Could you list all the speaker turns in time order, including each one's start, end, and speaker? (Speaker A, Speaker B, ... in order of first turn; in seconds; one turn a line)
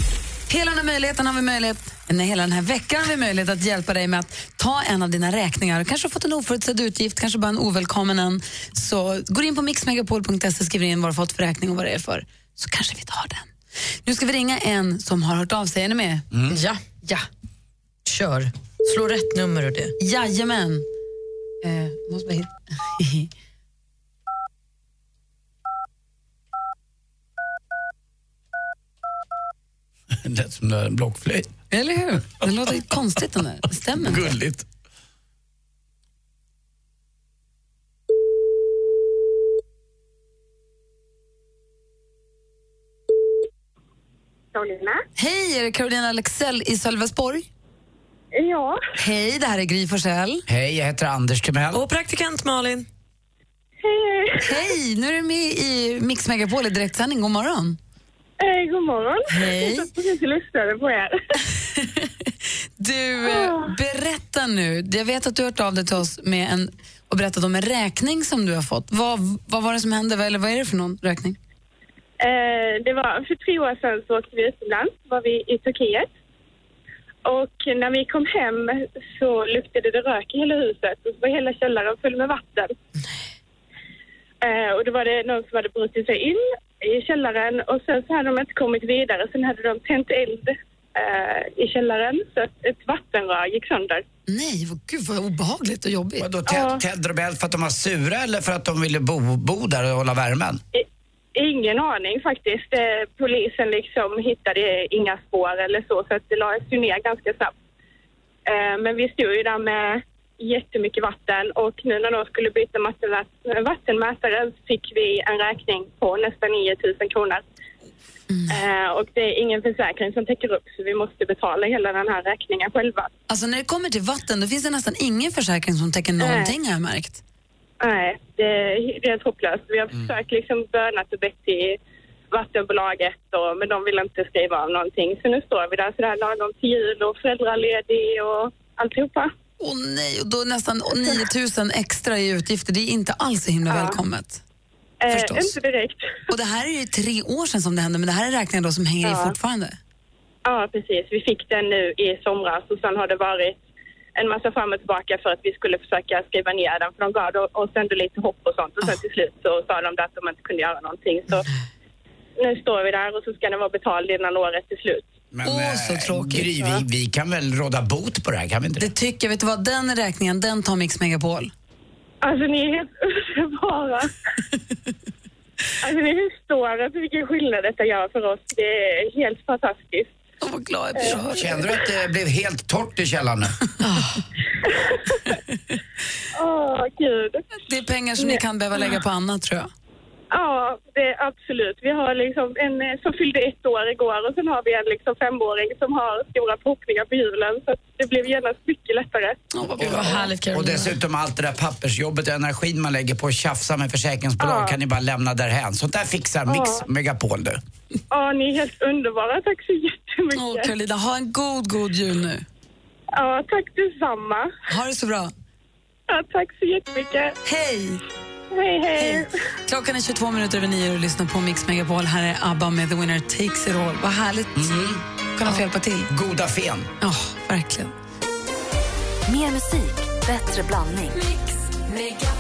Speaker A: 0.5-13.5
Speaker A: 14.1-16.3
Speaker B: 16.3-16.6
Speaker C: 16.5-16.8
Speaker C: 18.1-19.9
Speaker A: 20.0-20.9
Speaker A: 21.6-23.3
Speaker B: 30.1-31.5
Speaker A: 31.7-34.4
Speaker B: 34.0-34.7
Speaker D: 44.5-45.0
Speaker A: 45.2-47.5
Speaker D: 48.4-48.8
Speaker A: 49.0-50.4
Speaker B: 50.5-51.8
Speaker C: 51.7-52.9
Speaker D: 53.8-54.6
Speaker A: 54.4-57.8
Speaker D: 58.4-61.2
Speaker A: 59.3-59.9
Speaker A: 61.8-62.1
Speaker A: 62.8-71.4
Speaker D: 72.2-76.1
Speaker D: 77.3-82.7
Speaker D: 84.4-94.0
Speaker A: 94.3-96.3
Speaker B: 96.2-100.6
Speaker D: 96.5-96.8
Speaker D: 100.7-107.5
Speaker D: 108.5-117.4
Speaker A: 118.3-118.6
Speaker D: 118.5-123.1
Speaker A: 123.3-127.2
Speaker D: 126.2-126.5
Speaker D: 127.8-131.8
Speaker B: 129.9-130.2
Speaker D: 132.3-139.3
Speaker A: 139.6-144.4
Speaker D: 143.7-144.0
Speaker D: 145.0-146.1
Speaker A: 145.1-145.6
Speaker A: 146.3-149.8
Speaker D: 149.0-149.3
Speaker D: 150.5-153.6
Speaker D: 154.2-161.5
Speaker D: 162.4-165.1
Speaker B: 165.3-168.9
Speaker A: 165.4-166.8
Speaker A: 168.8-171.5
Speaker D: 172.2-174.1
Speaker D: 175.8-180.1
Speaker A: 180.4-181.7
Speaker D: 181.0-181.2
Speaker B: 181.1-183.6
Speaker C: 183.8-184.2
Speaker D: 184.6-185.3
Speaker D: 186.3-187.4
Speaker A: 187.7-189.7
Speaker D: 190.3-199.4
Speaker A: 199.5-200.3
Speaker B: 199.8-207.6
Speaker C: 199.8-200.9
Speaker D: 204.4-204.8
Speaker D: 206.5-206.8
Speaker D: 208.1-210.7
Speaker A: 210.3-212.4
Speaker D: 213.2-214.5
Speaker A: 214.7-215.3
Speaker D: 216.1-217.3
Speaker A: 217.4-218.0
Speaker D: 218.6-219.3
Speaker A: 219.0-226.1
Speaker B: 224.6-225.0
Speaker B: 226.1-226.9
Speaker A: 227.0-227.9
Speaker E: 229.3-231.2